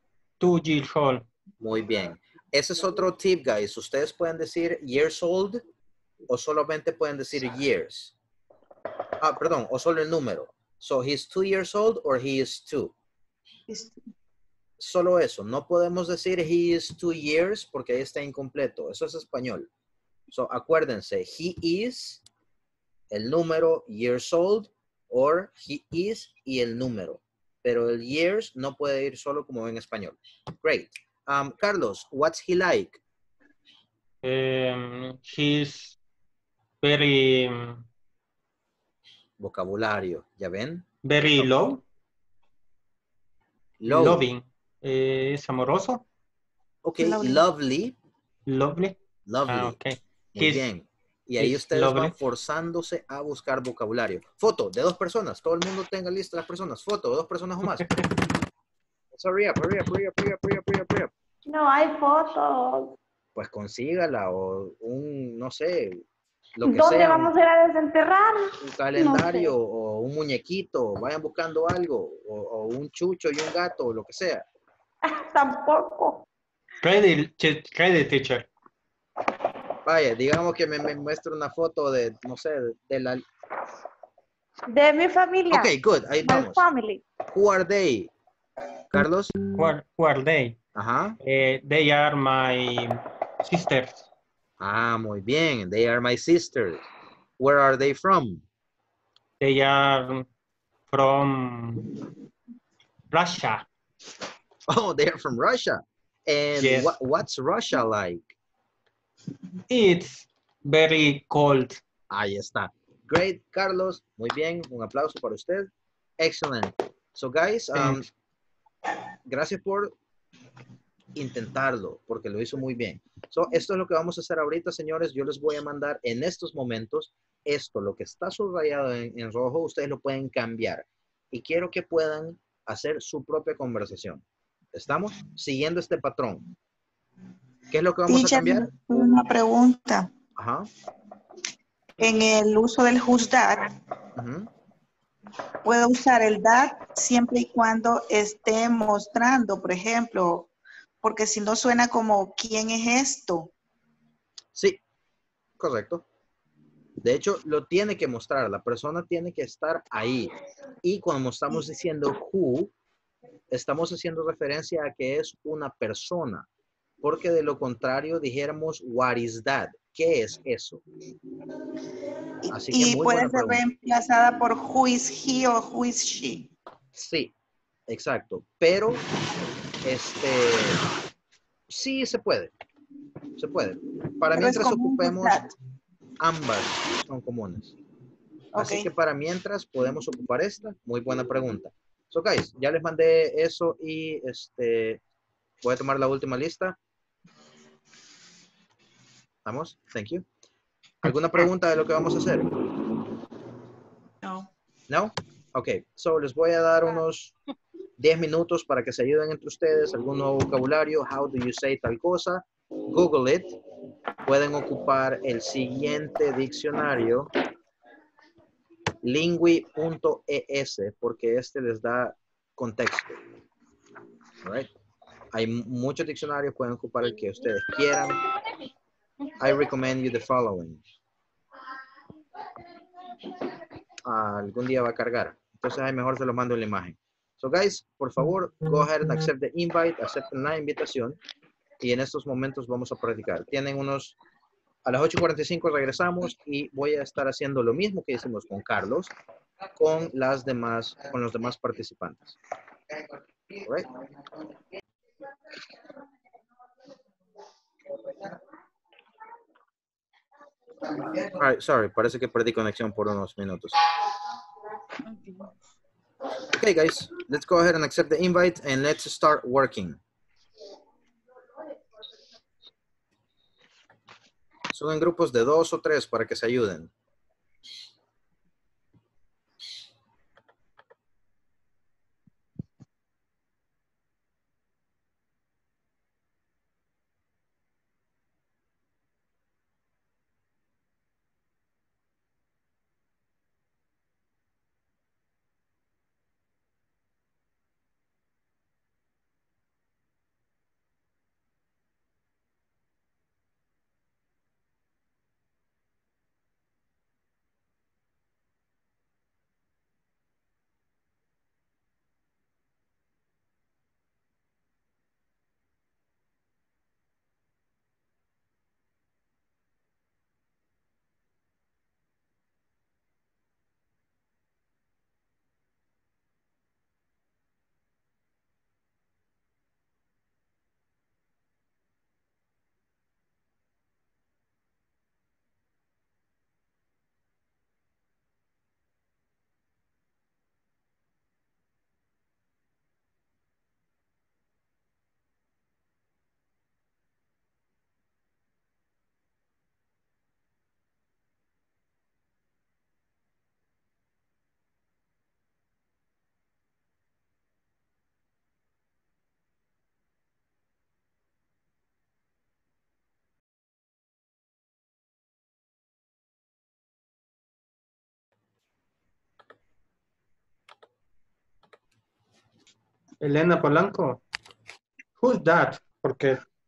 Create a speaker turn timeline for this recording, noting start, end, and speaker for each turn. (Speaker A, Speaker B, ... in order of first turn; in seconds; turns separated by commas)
Speaker A: 0.4-1.2, Speaker B: 1.6-5.6, Speaker B: 6.3-8.1, Speaker B: 9.2-12.9, Speaker C: 13.7-13.9, Speaker B: 14.8-19.7, Speaker B: 20.3-22.2, Speaker B: 23.1-33.0, Speaker A: 34.2-36.0, Speaker A: 36.8-37.9, Speaker B: 39.4-41.5, Speaker A: 41.0-41.8, Speaker B: 43.8-44.3, Speaker A: 43.9-46.0, Speaker B: 46.8-48.0, Speaker C: 47.0-47.5, Speaker A: 48.5-50.7, Speaker B: 49.3-49.8, Speaker B: 50.4-57.9, Speaker A: 51.4-52.1, Speaker B: 59.1-61.1, Speaker D: 61.5-63.0, Speaker B: 63.4-66.0, Speaker B: 66.6-67.3, Speaker D: 66.6-69.5, Speaker B: 68.6-74.5, Speaker D: 75.1-76.2, Speaker A: 76.8-78.5, Speaker B: 79.8-83.2, Speaker D: 84.7-85.7, Speaker B: 85.5-86.7, Speaker D: 86.2-87.0, Speaker B: 87.3-88.1, Speaker B: 88.9-89.4, Speaker A: 89.6-90.6, Speaker B: 90.8-91.2, Speaker A: 91.2-94.1, Speaker B: 94.6-96.9, Speaker B: 97.4-98.5, Speaker A: 99.4-100.3, Speaker A: 100.9-101.8, Speaker A: 103.1-103.7, Speaker B: 104.7-108.3, Speaker A: 106.6-106.9, Speaker A: 109.7-111.8, Speaker B: 112.1-118.0, Speaker A: 117.7-118.1, Speaker B: 119.3-119.9, Speaker B: 121.2-136.4, Speaker B: 137.7-138.7, Speaker C: 138.1-140.1, Speaker B: 140.4-140.7, Speaker C: 142.0-143.7, Speaker B: 144.2-144.5, Speaker C: 145.7-150.5, Speaker C: 151.0-153.5, Speaker B: 154.6-154.8, Speaker B: 155.6-156.1, Speaker B: 157.0-162.7, Speaker B: 163.5-166.5, Speaker B: 167.0-170.8, Speaker C: 172.4-176.5, Speaker B: 172.5-173.6, Speaker B: 176.9-177.3, Speaker B: 177.9-179.0, Speaker B: 179.8-180.8, Speaker B: 181.7-182.5, Speaker B: 183.4-185.5, Speaker C: 184.3-185.5, Speaker B: 186.2-187.7, Speaker C: 188.6-188.9, Speaker B: 188.6-195.0, Speaker B: 195.6-196.8, Speaker B: 199.4-200.2, Speaker B: 201.0-202.5, Speaker C: 204.2-204.5, Speaker B: 204.9-207.3, Speaker B: 208.0-213.6, Speaker B: 214.3-217.3, Speaker B: 219.0-223.2, Speaker B: 224.4-224.7, Speaker B: 225.3-228.2, Speaker B: 229.4-230.8, Speaker B: 234.1-241.2, Speaker B: 241.8-244.2, Speaker B: 244.8-249.1, Speaker B: 249.8-252.4, Speaker B: 253.6-253.9, Speaker B: 261.3-263.8, Speaker C: 265.1-265.5, Speaker B: 266.5-270.0, Speaker B: 274.7-276.9, Speaker A: 373.2-374.2, Speaker A: 375.2-376.4